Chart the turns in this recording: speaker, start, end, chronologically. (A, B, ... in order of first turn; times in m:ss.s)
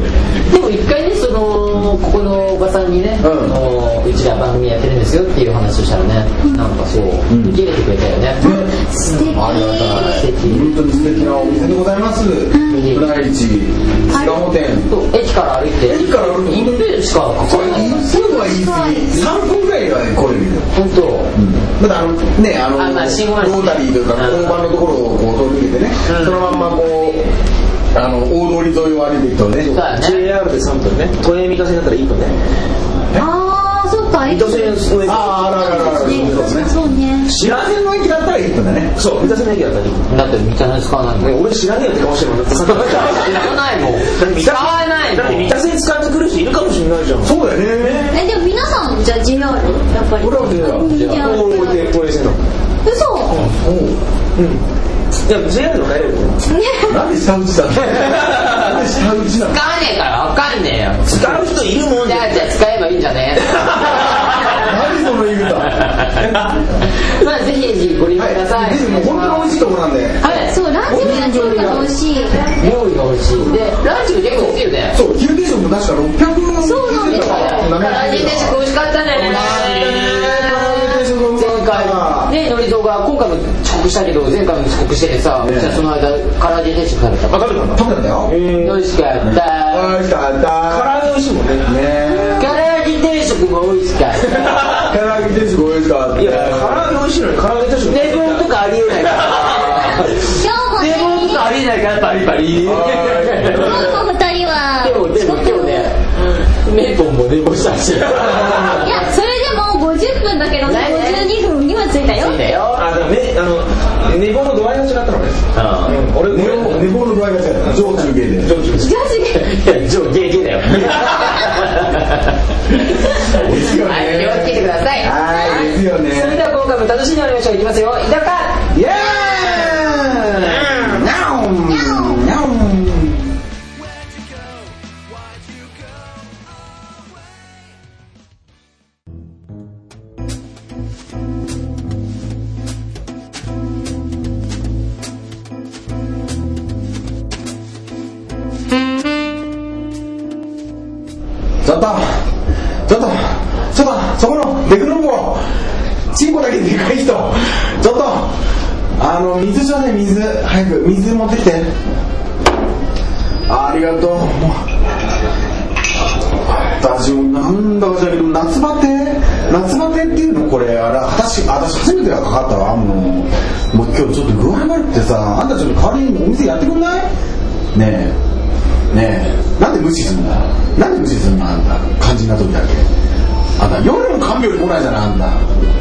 0:00.4-0:08.5 A
0:03.2-0:03.6 B
0:07.3-0:07.6 B
0:08.4-0:08.8 B
0:08.4-0:10.2 C
0:09.0-0:10.8 A
0:09.3-0:14.9 B
0:12.5-0:12.8 C
0:12.7-0:13.1 A
0:14.1-0:14.5 C
0:14.8-0:18.1 A
0:15.8-0:20.7 B
0:18.1-0:19.3 C
0:20.7-0:21.3 A
0:21.3-0:27.3 B
0:22.8-0:24.6 A
0:26.1-0:26.5 A
0:27.9-0:29.8 B
0:29.6-0:30.3 A
0:30.0-0:32.4 D
0:33.2-0:34.8 C
0:34.2-0:36.6 D
0:35.0-0:36.7 B
0:35.4-0:37.3 C
0:37.3-0:37.7 D
0:37.3-0:38.9 B
0:39.0-0:40.0 D
0:40.1-0:41.4 A
0:41.2-0:43.6 D
0:42.7-0:45.6 A
0:44.1-0:48.2 D
0:47.2-0:48.2 B
0:48.1-0:52.0 C
0:50.2-0:50.9 B
0:50.7-0:51.3 A
0:51.0-0:52.4 D
0:52.8-0:53.4 C
0:53.6-0:54.0 B
0:54.4-0:54.6 D
0:55.3-0:56.4 D
0:56.5-0:57.0 C
0:56.9-0:59.6 B
0:59.5-1:01.4 A
1:01.1-1:02.5 D
1:02.0-1:04.7 A
1:04.5-1:05.8 B
1:06.2-1:06.6 D
1:07.0-1:09.5 A
1:08.2-1:11.9 B
1:10.2-1:10.5 A
1:10.2-1:12.5 C
1:12.6-1:15.0 A
1:14.9-1:18.6 B
1:16.6-1:17.7 C
1:17.1-1:27.6 A
1:19.1-1:22.3 B
1:25.4-1:25.8 B
1:27.3-1:28.8 D
1:27.7-1:28.4 B
1:28.6-1:30.0 A
1:29.2-1:31.0 B
1:30.7-1:32.2 D
1:31.6-1:32.6 B
1:32.4-1:34.8 A
1:34.7-1:36.9 B
1:36.2-1:39.8 D
1:37.9-1:44.0 A
1:39.8-1:41.5 C
1:42.6-1:43.8 B
1:43.5-1:45.9 C
1:44.8-1:49.0 A
1:48.2-1:48.8 D
1:48.6-1:52.5 C
1:50.6-1:51.3 A
1:52.1-1:52.9 A
1:52.7-1:56.9 D
1:55.6-1:56.0 A
1:56.3-1:58.5 B
1:57.7-1:58.9 D
1:58.8-2:08.7 A
2:03.3-2:06.4 B
2:08.7-2:13.3 B
2:10.4-2:11.0 D
2:11.7-2:12.2 C
2:31.6-2:32.2 B
2:32.9-2:35.4 B
2:36.1-2:38.3 B
2:39.0-2:41.7 B
2:43.5-2:44.6 B
2:46.5-2:57.1 B
2:57.7-2:58.2 B
2:58.9-3:02.8 B
3:03.6-3:05.4 B